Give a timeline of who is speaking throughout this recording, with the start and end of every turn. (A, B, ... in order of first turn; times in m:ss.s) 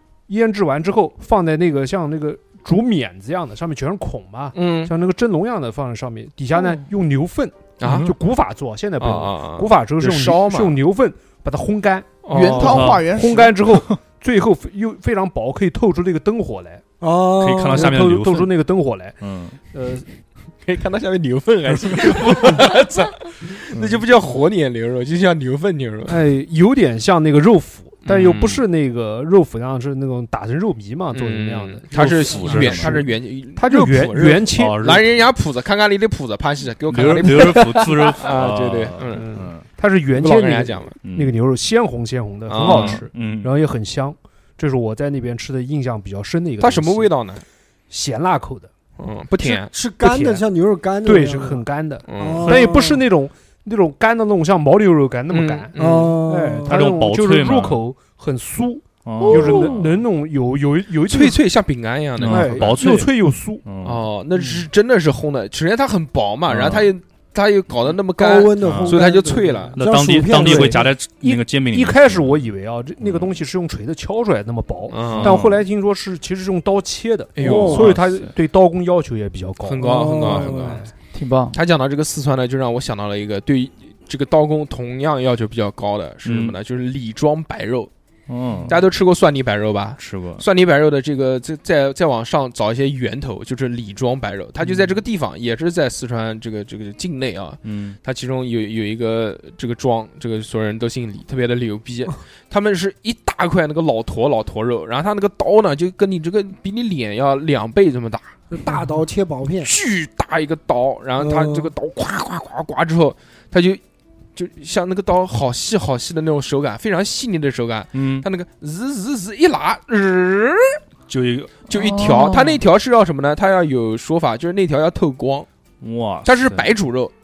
0:00.3-0:16.8 A
0:04.5-0:04.9 B
0:07.8-0:08.1 B
0:07.8-0:08.1 C
0:09.0-0:10.8 B
0:12.2-0:12.9 B
0:12.3-0:13.6 D
0:12.6-0:13.0 C
0:17.0-0:17.9 E
0:17.4-0:18.5 C
0:17.7-0:19.2 A
0:19.2-0:19.6 C
0:19.7-0:20.0 A
0:20.6-0:26.2 B
0:23.7-0:24.0 C
0:26.1-0:34.9 A
0:28.0-0:28.6 B
0:31.1-0:39.3 B
0:32.0-0:33.0 C
0:34.6-0:35.2 C
0:36.9-0:39.7 C
0:39.1-0:47.1 A
0:40.2-0:41.0 B
0:41.0-0:41.4 C
0:42.5-0:43.0 B
0:42.6-0:43.6 C
0:46.6-0:47.4 B
0:47.9-0:48.7 A
0:49.0-0:49.7 B
0:49.4-0:53.0 E
0:50.0-0:50.4 A
0:51.0-0:55.7 A
0:52.1-0:52.7 B
0:55.3-0:56.2 B
0:55.8-0:56.7 E
0:56.2-1:01.4 A
0:56.7-0:57.8 C
0:59.0-1:00.0 C
1:01.1-1:02.8 B
1:02.2-1:04.0 C
1:02.2-1:03.6 A
1:03.8-1:09.8 B
1:06.5-1:06.9 C
1:08.2-1:10.8 E
1:08.6-1:09.0 C
1:09.7-1:12.5 C
1:10.4-1:20.9 A
1:13.0-1:13.4 C
1:14.9-1:15.4 B
1:15.1-1:15.6 C
1:17.4-1:17.9 B
1:17.4-1:18.3 C
1:17.4-1:17.9 E
1:19.6-1:20.8 B
1:19.8-1:20.8 E
1:21.1-1:21.6 D
1:21.5-1:27.9 B
1:26.2-1:26.6 C
1:28.3-1:28.8 C
1:28.7-1:48.4 B
1:30.0-1:30.4 C
1:37.6-1:38.0 C
1:48.5-1:49.7 E
1:49.6-1:53.8 B
1:51.2-1:51.7 E
1:54.4-2:00.8 B
1:57.9-1:58.3 C
2:01.1-2:01.7 C
2:01.7-2:05.5 B
2:01.7-2:02.6 D
2:05.8-2:06.7 C
2:06.2-2:07.1 B